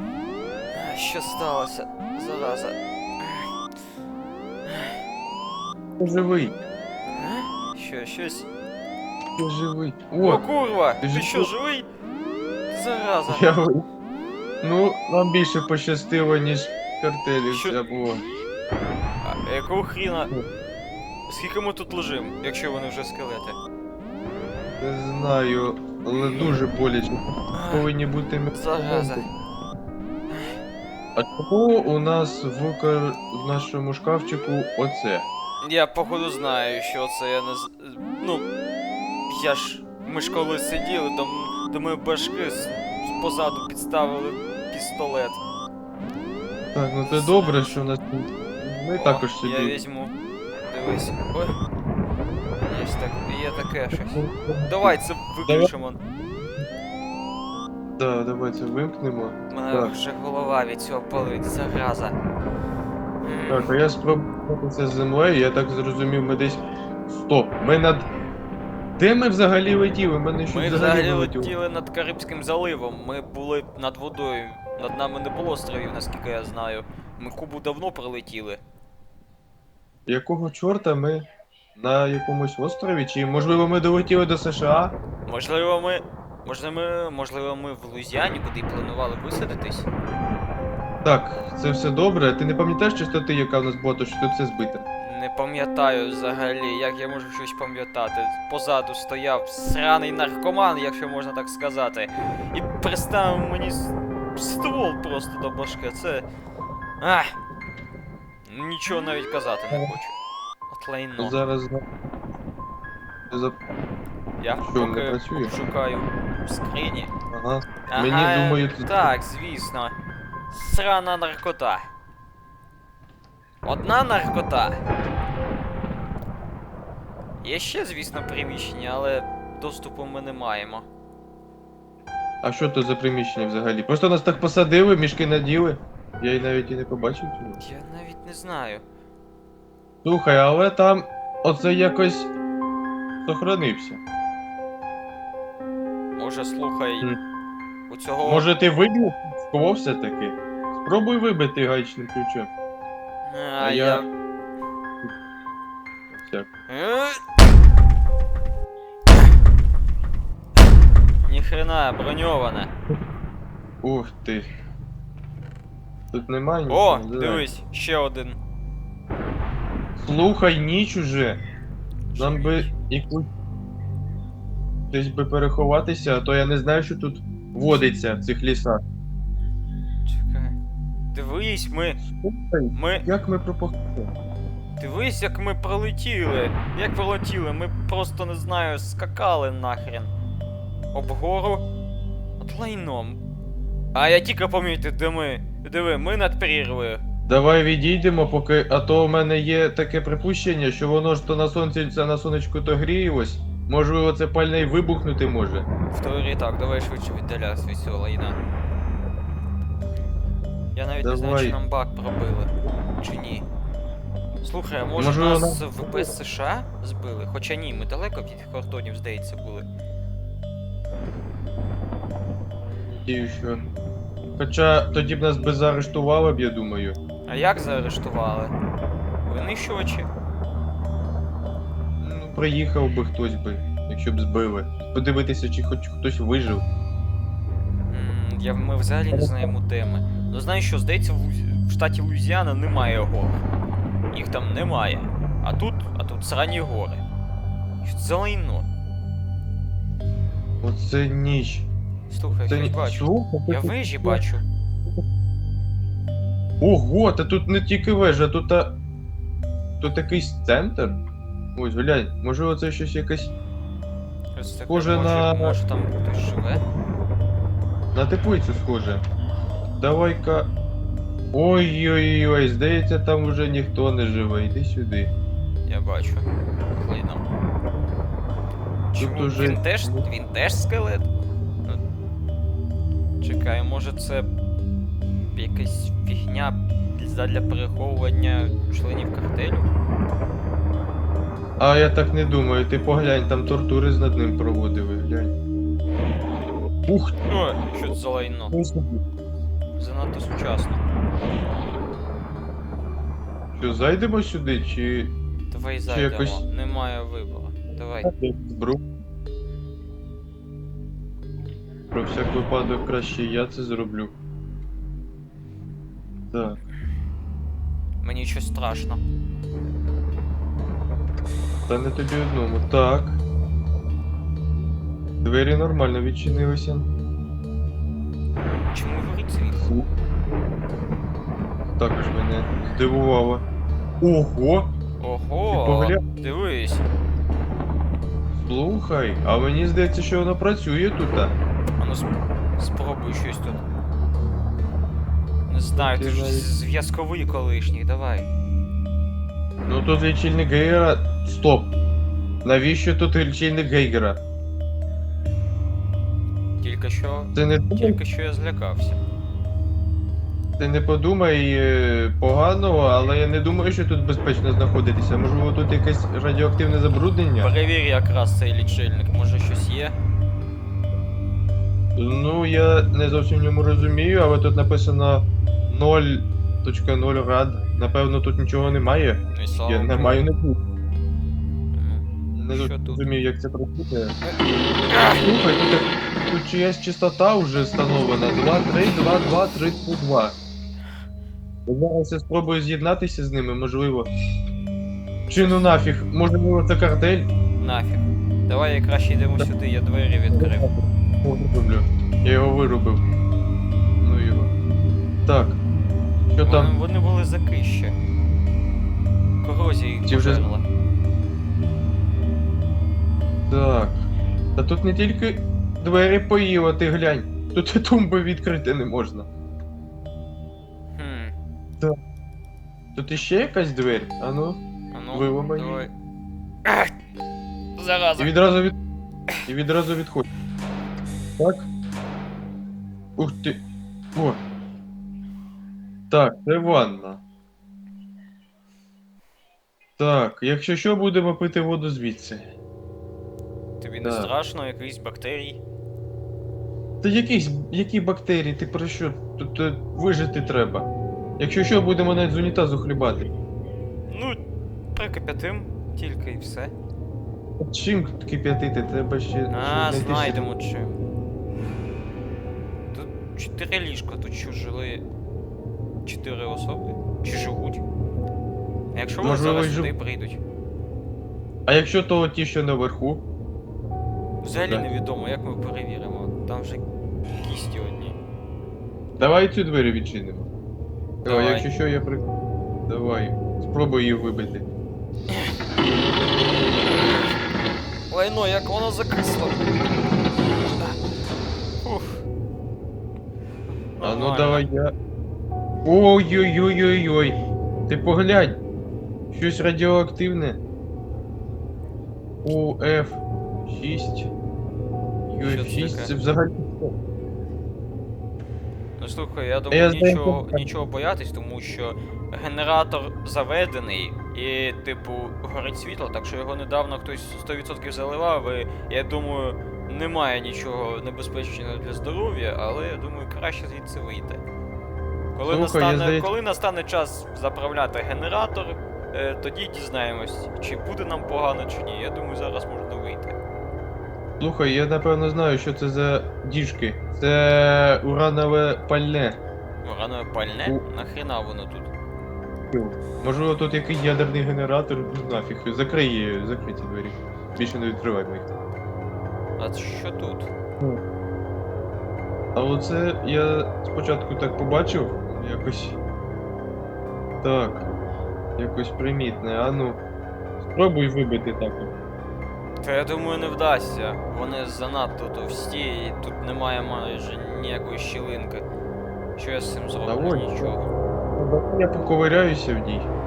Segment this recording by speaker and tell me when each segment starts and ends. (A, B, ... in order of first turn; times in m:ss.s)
0:00.7-0:03.5 A
0:04.6-0:05.0 A
0:06.0-0:06.5 B
0:07.1-0:08.5 A
0:09.4-0:10.4 B
0:10.2-0:11.8 A
0:11.0-0:11.5 B
0:12.7-0:13.5 A
0:13.3-0:13.8 B
0:14.6-0:18.2 B
0:17.5-0:17.8 A
0:19.2-0:20.3 A
0:21.3-0:23.6 A
0:24.8-0:29.2 B
0:27.5-0:27.9 A
0:28.5-0:29.3 A
0:30.3-0:30.6 A
0:31.2-0:35.3 B
0:35.6-0:38.4 A
0:39.3-0:45.4 A
0:46.7-0:49.8 B
0:47.0-0:47.8 A
0:49.0-0:50.1 A
0:50.7-0:51.6 A
0:52.6-0:56.0 A
0:54.0-0:55.7 B
0:58.0-0:59.9 B
0:59.5-1:02.2 A
1:03.2-1:03.7 A
1:03.5-1:08.0 B
1:09.0-1:11.5 B
1:10.5-1:18.6 A
1:20.1-1:25.0 B
1:25.2-1:29.9 A
1:31.0-1:34.8 B
1:35.0-1:46.2 A
1:47.0-1:47.3 A
1:48.4-1:50.1 A
1:49.7-1:50.0 B
1:50.7-1:51.4 A
1:51.2-1:51.8 B
1:53.3-1:53.6 B
1:54.4-1:57.1 A
1:54.6-1:55.5 B
1:57.3-1:59.1 B
1:57.9-1:59.9 A
2:00.5-2:01.9 A
2:03.6-2:04.8 A
2:07.4-2:10.9 A
2:12.4-2:17.6 B
2:17.6-2:18.8 A
2:20.0-2:22.3 B
2:23.2-2:24.0 B
2:26.1-2:27.1 A
2:27.9-2:28.5 A
2:28.2-2:32.5 B
2:33.2-2:34.1 A
2:33.6-2:34.0 B
2:36.1-2:36.5 B
2:36.7-2:37.2 A
2:41.2-2:42.7 A
2:43.8-2:44.5 B
2:46.1-2:47.5 B
2:46.7-2:48.4 A
2:50.0-2:51.4 B
2:52.1-2:52.7 A
2:52.1-2:53.3 B
2:54.9-2:58.8 B
3:00.0-3:00.5 A
3:01.1-3:02.0 A
3:02.1-3:04.1 B
3:02.7-3:03.0 A
3:04.8-3:10.1 A
3:10.9-3:11.6 A
3:12.4-3:13.2 A
3:13.9-3:17.0 A
3:17.3-3:25.7 B
3:25.9-3:28.4 A
3:30.7-3:33.4 A
3:31.0-3:31.6 B
3:34.4-3:39.7 A
3:35.0-3:36.1 B
3:42.9-3:43.6 B
3:44.4-3:47.0 B
3:47.3-3:48.5 A
3:49.3-3:50.1 A
3:52.0-3:56.6 B
3:57.9-4:03.4 A
3:59.1-3:59.5 B
4:04.1-4:07.0 A
4:07.8-4:08.6 A
4:10.6-4:11.7 B
4:12.1-4:14.4 A
4:12.3-4:14.2 B
4:16.6-4:18.8 B
4:19.8-4:21.0 B
4:21.5-4:23.3 B
4:24.3-4:26.6 A
4:24.7-4:25.6 B
4:27.9-4:29.0 B
4:29.8-4:30.5 B
4:31.3-4:35.1 B
4:35.6-4:37.3 A
4:38.9-4:41.1 A
4:39.0-4:40.1 B
4:43.2-4:44.3 A
4:45.3-4:49.7 A
4:51.6-4:55.3 B
4:56.9-4:57.1 B
4:57.2-4:58.5 A
4:58.5-4:59.0 B
4:59.8-5:00.8 A
5:03.6-5:05.1 B
5:05.5-5:08.1 A
5:05.8-5:06.4 B
5:08.0-5:08.8 B
5:11.9-5:14.1 B
5:16.3-5:16.6 B
5:18.0-5:19.0 A
5:21.7-5:23.2 B
5:25.2-5:26.9 B
5:28.7-5:29.6 A
5:29.5-5:29.9 B
5:31.8-5:33.4 B
5:34.0-5:34.7 B
5:35.0-5:36.8 A
5:35.5-5:36.0 B
5:38.3-5:41.4 B
5:41.8-5:43.6 A
5:45.5-5:48.3 A
5:45.7-5:46.5 B
5:49.6-5:51.7 B
5:52.4-5:54.2 B
5:56.6-5:59.0 A
5:57.3-5:58.0 B
6:00.6-6:07.5 B
6:07.4-6:09.9 A
6:12.0-6:20.6 B
6:19.3-6:20.2 A
6:21.7-6:23.0 A
6:22.3-6:24.2 B
6:24.9-6:25.2 A
6:25.0-6:30.4 B
6:31.6-6:34.1 B
6:35.3-6:37.3 B
6:37.6-6:40.7 A
6:40.3-6:43.0 B
6:44.0-6:44.5 B
6:45.2-6:45.6 B
6:46.3-6:46.7 B
6:46.4-6:47.9 A
6:49.4-6:50.6 A
6:50.0-6:50.5 B
6:53.5-6:59.3 B
7:01.0-7:01.3 A
7:03.0-7:04.6 B
7:04.9-7:05.9 A
7:05.1-7:05.9 B
7:06.6-7:06.9 A
7:07.8-7:08.3 A
7:08.2-7:08.7 B
7:09.5-7:10.3 B
7:11.4-7:11.7 B
7:13.2-7:13.6 B
7:14.1-7:14.4 B
7:16.1-7:17.2 B
7:20.0-7:22.4 B
7:23.8-7:25.6 A
7:24.0-7:24.3 B
7:27.0-7:33.3 B
7:34.1-7:34.4 A
7:34.9-7:36.7 A
7:37.6-7:40.5 B
7:39.5-7:41.0 A
7:42.9-7:45.0 A
7:46.0-7:47.8 A
7:48.9-7:50.4 A
7:49.2-7:49.9 B
7:51.7-7:53.2 B
7:54.4-7:56.8 A
7:54.5-7:54.9 B
7:57.4-7:58.2 A
7:59.2-8:00.5 B
8:01.2-8:02.2 B
8:01.2-8:01.7 A
8:02.9-8:04.7 B
8:08.1-8:09.7 A
8:11.8-8:12.2 A
8:14.0-8:14.6 A
8:14.0-8:14.9 B
8:15.8-8:18.6 B
8:19.3-8:20.6 B
8:22.4-8:24.3 B
8:25.3-8:26.9 B
8:25.4-8:26.1 A
8:29.0-8:44.4 A
8:29.7-8:30.7 B
8:45.3-8:53.4 A
8:45.4-8:46.3 B
8:54.4-8:59.4 B
8:59.8-9:01.9 A
9:02.7-9:08.5 B
9:09.6-9:10.5 A
9:12.5-9:16.0 B
9:17.4-9:18.0 B
9:18.6-9:20.0 B
9:20.6-9:21.9 B
9:22.8-9:28.6 A
9:29.4-9:30.9 A
9:30.1-9:30.8 B
9:31.4-9:33.1 B